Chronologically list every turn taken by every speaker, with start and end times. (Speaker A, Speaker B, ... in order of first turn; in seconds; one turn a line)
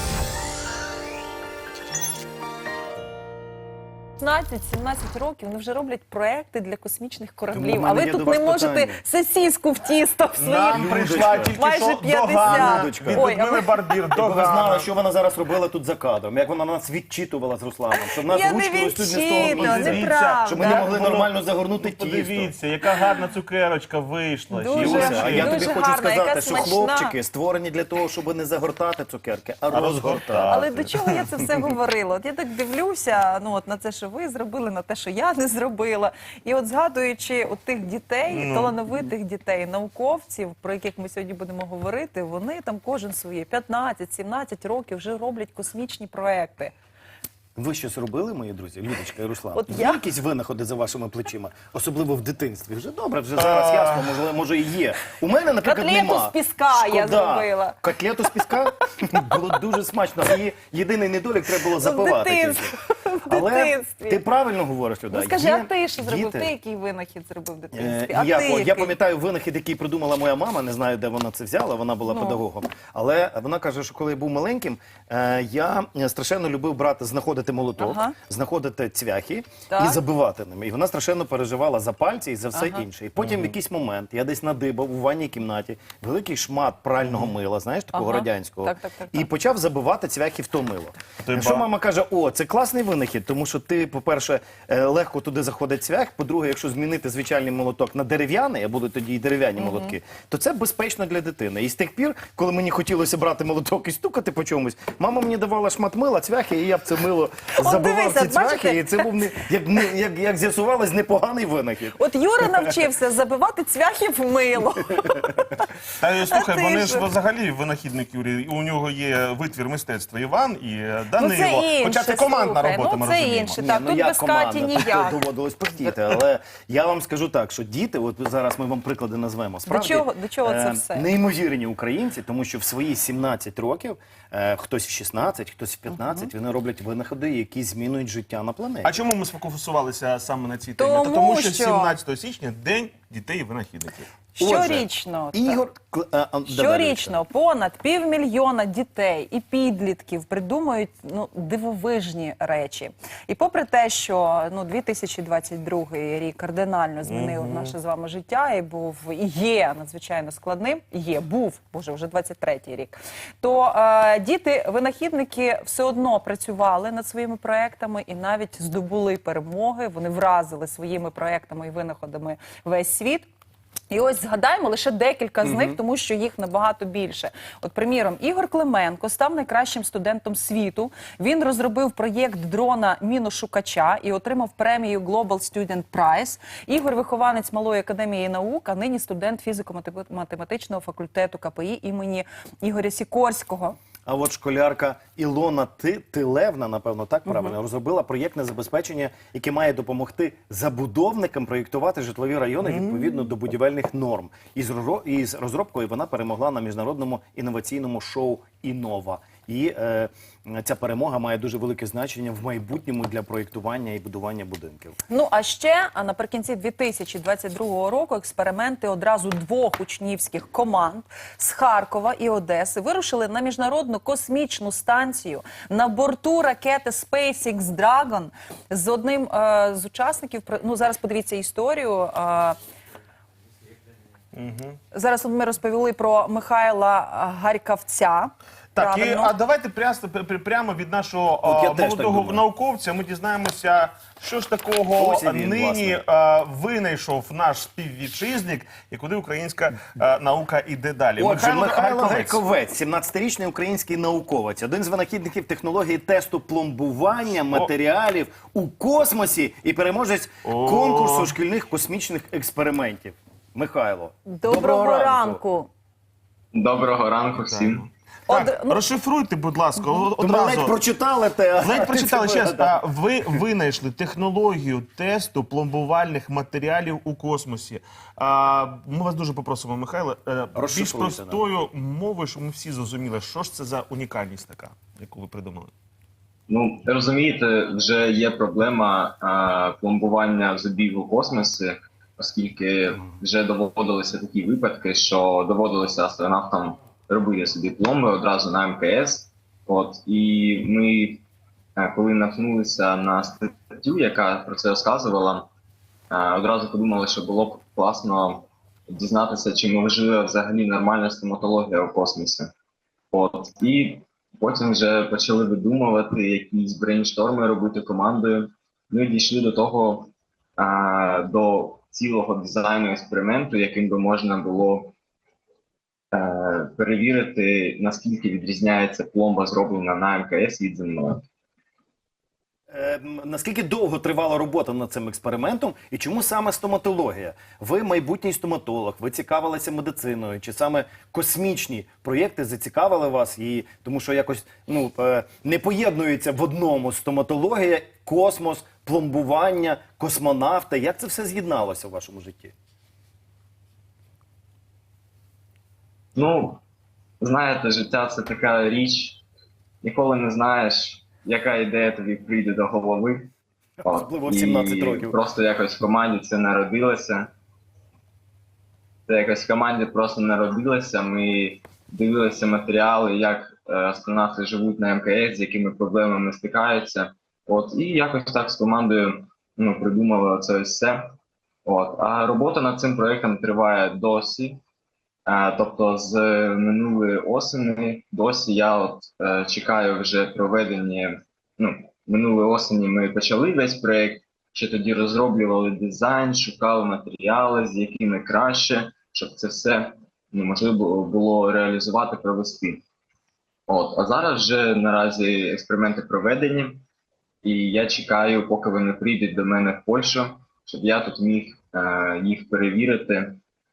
Speaker A: 4.2-14.0
Speaker B: 7.5-9.0
Speaker C: 10.4-14.9
Speaker B: 10.7-11.6
Speaker B: 12.4-13.3
Speaker B: 14.2-22.5
Speaker A: 18.2-20.9
Speaker C: 19.4-25.7
Speaker A: 24.5-27.1
Speaker B: 24.7-30.9
Speaker C: 29.7-30.9
Speaker A: 30.5-46.7
Speaker C: 38.3-38.8
Speaker B: 47.6-62.8
Speaker A: 49.5-50.0
Speaker C: 53.4-54.1
Speaker A: 55.6-57.8
Speaker A: 61.8-64.2
Speaker B: 63.3-66.5
Speaker A: 65.1-69.0
Speaker B: 67.7-112.7
Speaker A: 72.1-72.4
Speaker A: 77.8-78.2
Speaker A: 79.7-80.0
Speaker A: 82.5-82.8
Speaker C: 83.2-83.5
Speaker A: 87.9-89.3
Speaker C: 91.2-91.7
Speaker A: 99.6-100.0
Speaker A: 107.6-109.1
Speaker A: 111.9-115.6
Speaker C: 116.0-123.5
Speaker A: 116.3-117.0
Speaker A: 121.2-125.2
Speaker B: 123.5-138.9
Speaker A: 129.7-131.1
Speaker A: 135.9-136.3
Speaker C: 138.8-144.1
Speaker A: 140.8-142.0
Speaker A: 144.3-145.6
Speaker B: 144.4-147.2
Speaker A: 146.5-173.3
Speaker C: 157.1-157.8
Speaker A: 173.9-193.8
Speaker B: 194.1-214.9
Speaker A: 197.3-197.6
Speaker C: 202.7-203.0
Speaker A: 215.1-232.6
Speaker C: 234.3-234.8
Speaker A: 234.9-239.3
Speaker C: 238.7-252.4
Speaker B: 241.4-242.4
Speaker B: 244.9-246.0
Speaker B: 251.2-265.4
Speaker C: 260.4-261.3
Speaker A: 264.3-265.7
Speaker D: 266.5-267.9
Speaker C: 267.4-270.7
Speaker A: 268.3-268.9
Speaker B: 270.2-272.8
Speaker C: 271.6-285.7
Speaker B: 280.6-281.4
Speaker D: 286.5-301.2
Speaker D: 301.8-305.5
Speaker D: 306.1-312.5
Speaker D: 313.1-324.9
Speaker D: 326.1-331.2
Speaker B: 332.7-352.5
Speaker D: 356.1-356.6
Speaker D: 357.2-359.2
Speaker D: 359.8-363.3
Speaker B: 363.8-365.2
Speaker D: 363.8-367.3
Speaker D: 369.1-384.6
Speaker D: 385.3-402.8
Speaker D: 403.7-406.8
Speaker D: 407.4-413.4